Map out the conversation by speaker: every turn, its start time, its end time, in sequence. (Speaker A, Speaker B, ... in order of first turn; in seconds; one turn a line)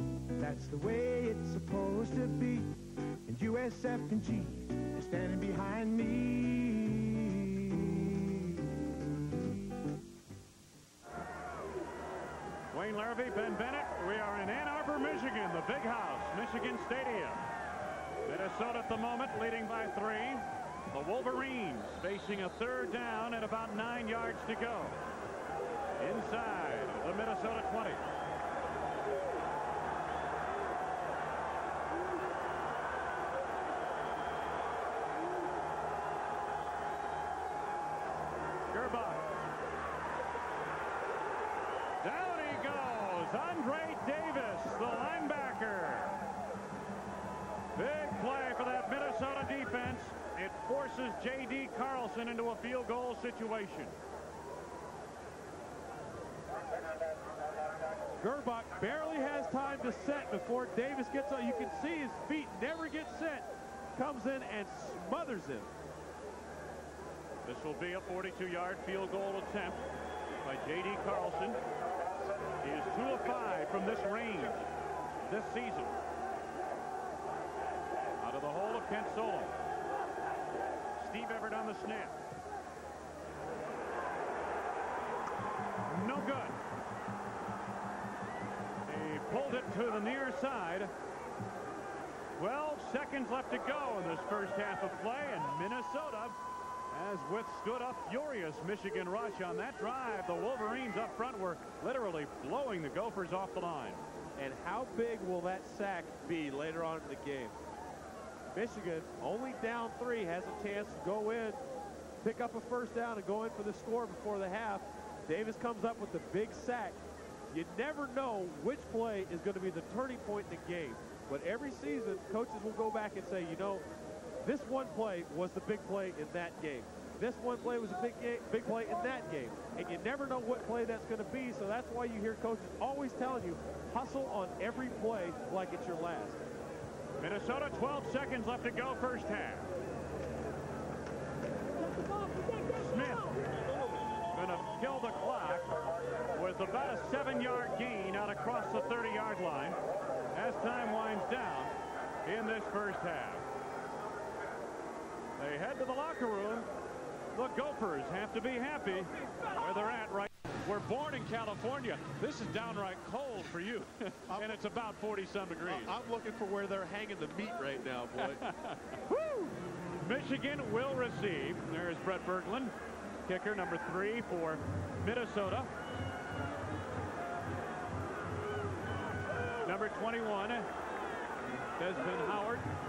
Speaker A: 0.4-8.0
Speaker B: 12.7-17.4
Speaker B: 18.2-25.0
Speaker B: 26.0-28.0
Speaker B: 38.7-39.3
Speaker B: 42.0-46.1
Speaker B: 47.8-53.9
Speaker C: 58.2-65.7
Speaker B: 67.4-69.8
Speaker B: 70.4-71.6
Speaker B: 72.6-74.7
Speaker B: 75.2-76.0
Speaker B: 78.2-79.6
Speaker B: 81.0-82.2
Speaker B: 85.9-86.6
Speaker B: 88.8-90.9
Speaker B: 92.3-96.4
Speaker B: 96.9-104.0
Speaker C: 104.4-107.6
Speaker C: 108.5-111.6
Speaker C: 112.2-117.0
Speaker C: 117.5-123.8
Speaker C: 124.4-136.4
Speaker B: 137.2-139.7
Speaker B: 142.6-143.4
Speaker B: 144.3-145.7
Speaker B: 146.3-149.8
Speaker B: 150.3-153.4
Speaker B: 155.4-156.7
Speaker B: 157.3-166.0
Speaker C: 164.3-164.6
Speaker C: 165.7-168.4
Speaker B: 168.2-168.9
Speaker C: 169.1-169.5
Speaker B: 170.0-172.7
Speaker B: 173.2-175.7
Speaker B: 179.6-180.7
Speaker B: 181.8-182.7